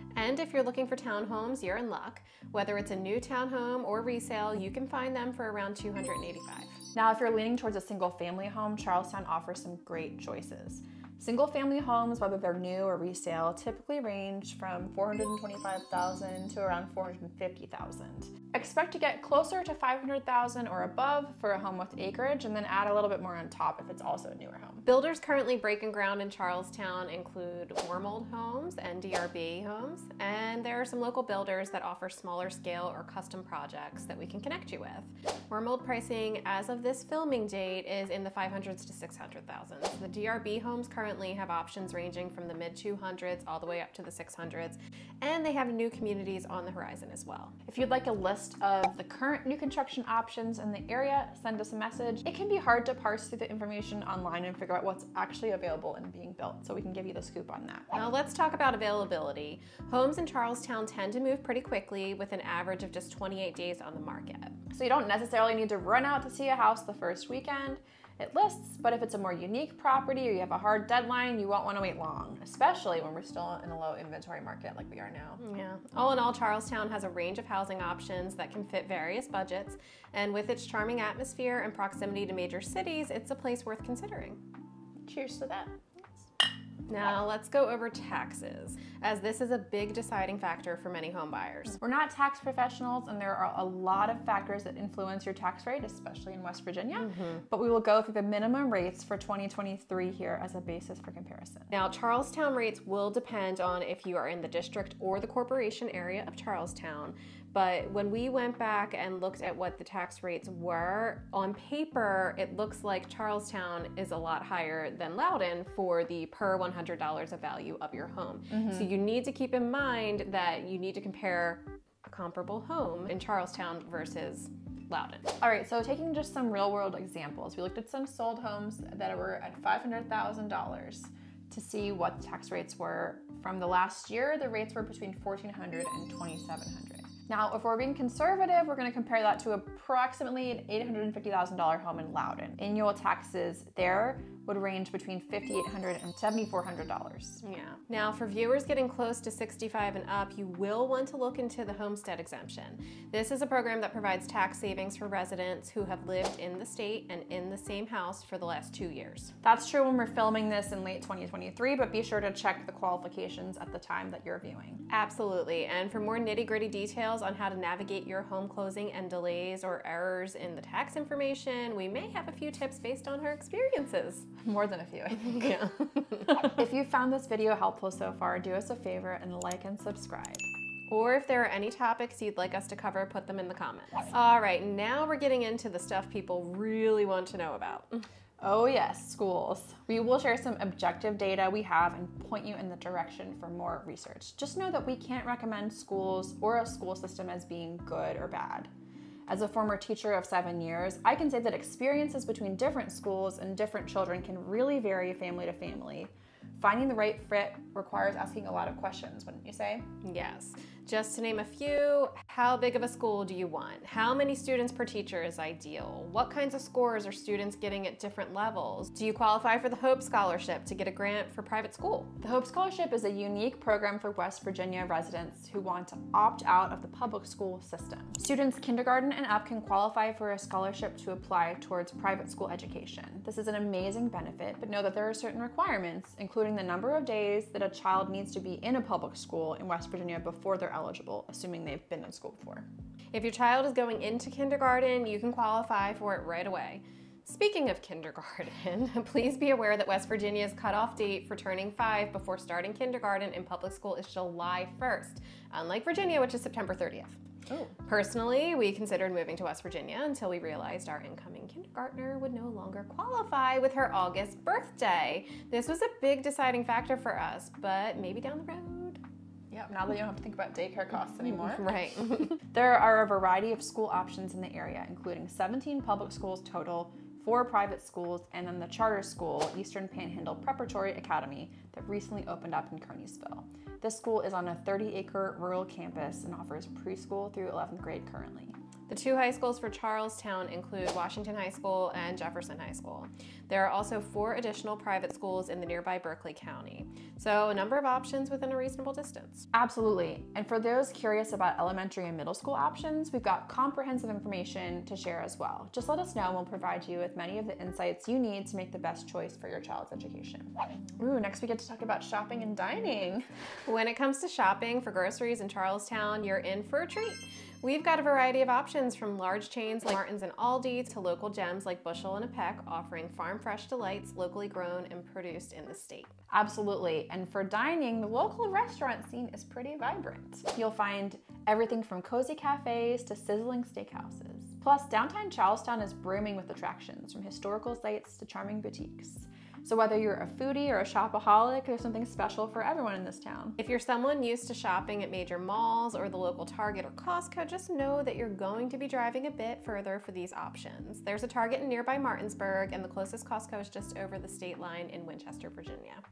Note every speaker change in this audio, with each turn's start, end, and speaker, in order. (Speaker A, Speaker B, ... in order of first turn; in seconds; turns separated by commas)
Speaker A: 0.1-6.8, Speaker B: 6.9-24.8, Speaker A: 24.8-47.5, Speaker B: 47.7-57.9, Speaker A: 57.9-64.5, Speaker B: 64.7-75.4, Speaker A: 75.4-84.4, Speaker B: 85.0-85.8, Speaker A: 86.9-91.8, Speaker B: 91.8-101.7, Speaker A: 97.0-97.4, Speaker A: 101.7-125.3, Speaker B: 118.5-118.9, Speaker B: 125.4-147.4, Speaker A: 147.4-159.3, Speaker B: 159.4-164.8, Speaker A: 164.9-174.3, Speaker B: 174.4-175.7, Speaker A: 175.2-176.5, Speaker B: 176.4-180.4, Speaker A: 180.9-188.0, Speaker B: 188.4-198.7, Speaker B: 199.3-209.8, Speaker A: 210.0-222.1, Speaker B: 222.2-242.7, Speaker A: 243.1-269.7, Speaker B: 269.7-271.7, Speaker A: 271.2-272.4, Speaker B: 272.4-288.5, Speaker A: 288.9-299.4, Speaker B: 299.5-313.2, Speaker A: 313.6-326.1, Speaker B: 326.3-343.6, Speaker A: 343.6-356.0